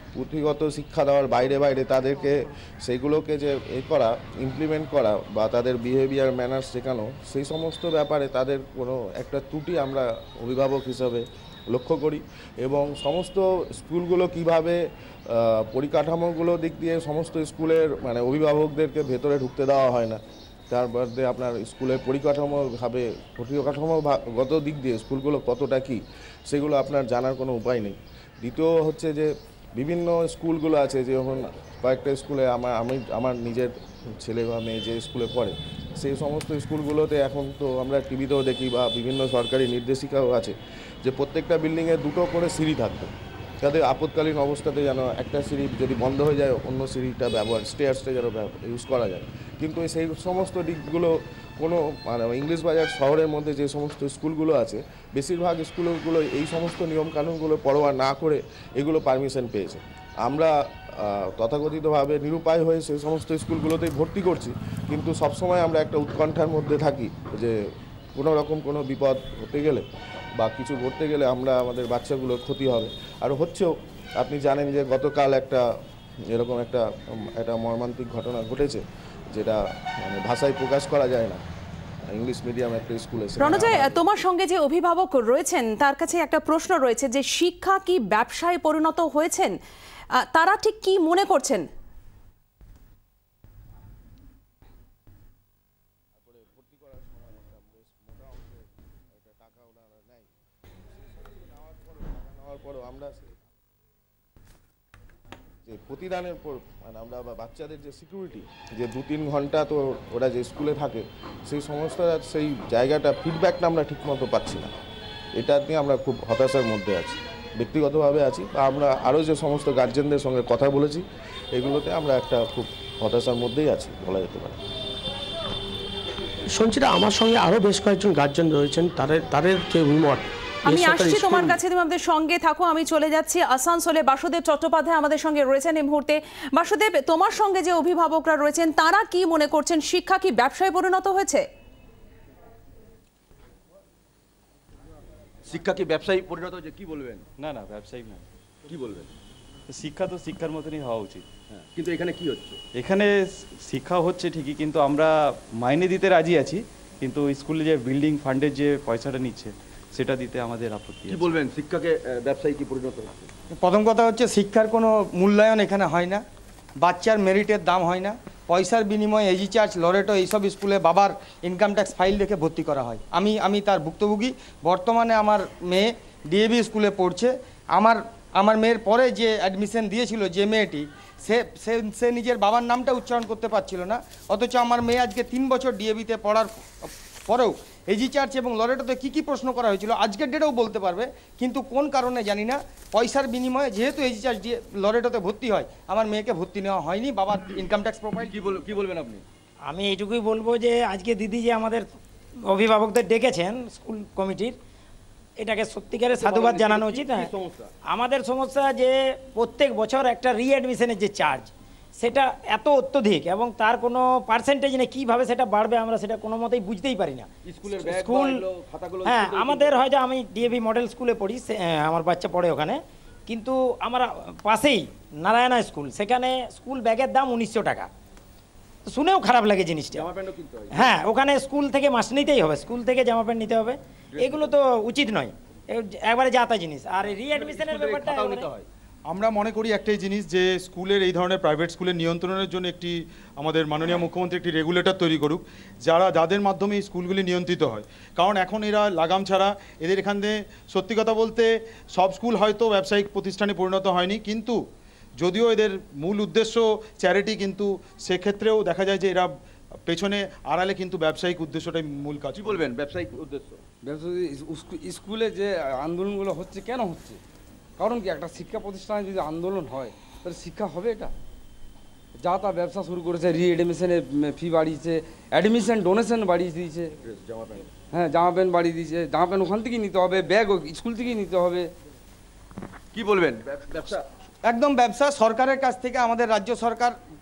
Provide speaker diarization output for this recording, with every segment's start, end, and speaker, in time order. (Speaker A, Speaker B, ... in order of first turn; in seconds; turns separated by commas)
Speaker A: 0.1-67.6, Speaker A: 68.1-69.8, Speaker A: 70.4-75.7, Speaker A: 76.3-81.4, Speaker A: 82.0-84.0, Speaker B: 83.4-89.5, Speaker B: 90.1-91.7, Speaker A: 96.1-100.3, Speaker A: 101.1-103.5, Speaker A: 105.7-114.7, Speaker A: 115.4-124.6, Speaker C: 126.5-131.6, Speaker B: 130.7-141.4, Speaker D: 145.5-147.2, Speaker E: 147.4-148.2, Speaker D: 148.7-149.1, Speaker E: 149.8-151.2, Speaker D: 151.5-152.6, Speaker E: 152.8-153.1, Speaker E: 153.6-161.1, Speaker D: 161.0-163.3, Speaker F: 163.6-166.2, Speaker F: 166.8-198.5, Speaker D: 198.3-199.2, Speaker G: 199.7-201.9, Speaker G: 202.5-204.6, Speaker G: 205.4-207.3, Speaker D: 206.1-207.7, Speaker G: 207.9-218.4, Speaker D: 217.4-219.8, Speaker G: 219.0-227.9, Speaker G: 228.8-230.1, Speaker D: 229.9-231.0, Speaker G: 230.7-238.5, Speaker D: 234.1-234.6, Speaker D: 237.0-238.7, Speaker H: 239.1-254.6, Speaker H: 255.2-259.3, Speaker H: 259.9-262.7, Speaker D: 262.3-263.6, Speaker I: 263.8-267.2, Speaker I: 267.8-271.1, Speaker I: 272.2-276.9, Speaker D: 277.0-277.7, Speaker I: 277.9-281.7, Speaker D: 282.9-284.0, Speaker F: 284.4-286.9